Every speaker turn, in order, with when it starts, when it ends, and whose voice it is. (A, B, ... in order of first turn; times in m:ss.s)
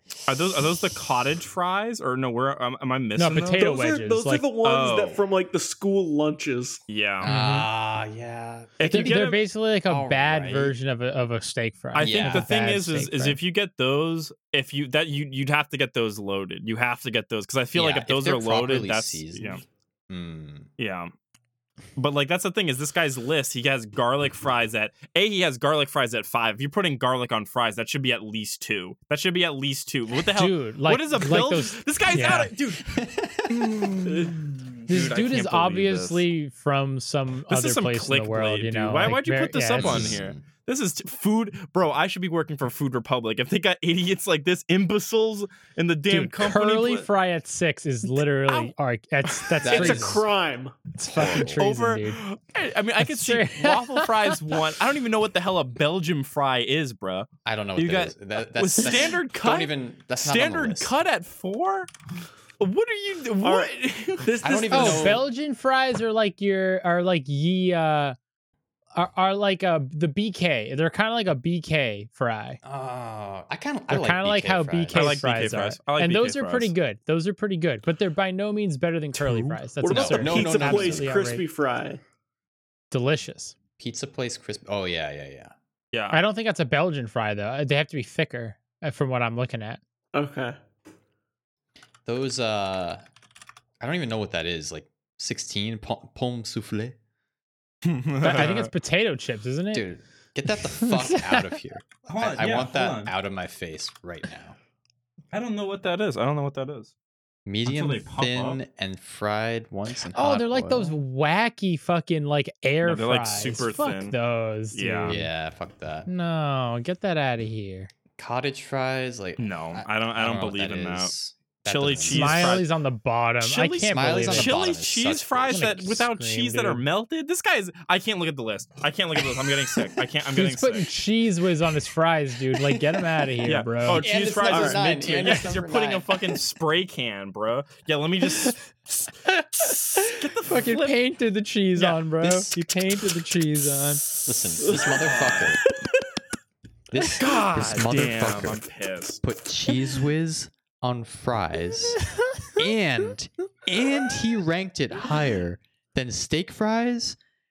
0:00.3-0:03.7 A
0:03.2-0:04.4 B
0:03.5-0:06.8 C
0:04.6-0:05.2 A
0:06.9-0:07.4 A
0:07.2-0:09.4 D
0:07.2-0:07.7 B
0:08.8-0:09.4 A
0:08.9-0:13.4 B
0:09.9-0:10.8 D
0:12.0-0:19.6 A
0:12.0-0:12.5 D
0:17.8-0:20.7 D
0:20.8-0:21.1 A
0:22.0-0:33.0 A
0:30.3-0:32.5 B
0:32.8-0:33.7 D
0:33.5-0:40.2 B
0:34.1-0:36.2 A
0:37.5-0:47.1 A
0:39.8-0:40.4 D
0:46.1-0:50.2 B
0:48.5-0:48.7 A
0:49.3-0:49.6 A
0:49.6-0:50.2 D
0:49.6-0:50.9 C
0:51.0-0:52.2 B
0:51.1-0:51.6 D
0:51.2-1:01.9 A
0:53.0-0:54.4 B
0:57.4-1:00.9 D
1:02.6-1:04.3 A
1:03.4-1:05.2 C
1:04.4-1:05.3 D
1:04.7-1:08.2 B
1:09.0-1:12.6 B
1:12.6-1:15.1 D
1:13.9-1:21.4 B
1:14.9-1:16.7 A
1:19.2-1:19.6 A
1:19.8-1:22.0 C
1:19.9-1:21.2 D
1:22.9-1:23.5 B
1:23.8-1:25.5 D
1:25.9-1:26.2 A
1:26.1-1:29.8 B
1:30.1-1:30.6 C
1:32.0-1:33.0 D
1:33.8-1:37.0 D
1:37.8-1:38.7 A
1:38.2-1:39.9 B
1:39.7-1:44.6 D
1:40.7-1:41.5 B
1:42.1-1:43.1 A
1:45.3-1:46.9 A
1:47.5-1:51.0 D
1:47.7-1:48.6 A
1:50.1-1:55.3 B
1:52.8-1:54.2 A
1:54.7-1:55.2 A
1:55.0-1:56.1 D
1:56.1-1:57.9 B
1:58.2-2:02.6 D
1:59.4-2:01.1 A
2:01.7-2:02.7 A
2:02.0-2:04.6 B
2:03.4-2:10.9 A
2:03.9-2:05.7 D
2:05.5-2:06.8 B
2:10.4-2:14.1 B
2:12.7-2:13.0 D
2:13.4-2:18.6 A
2:13.9-2:16.2 D
2:14.5-2:14.8 C
2:19.3-2:24.1 B
2:19.6-2:21.0 A
2:22.2-2:22.8 D
2:24.2-2:25.6 D
2:24.6-2:25.4 C
2:24.9-2:25.5 A
2:26.9-2:28.7 D
2:27.2-2:29.2 A
2:29.2-2:37.2 D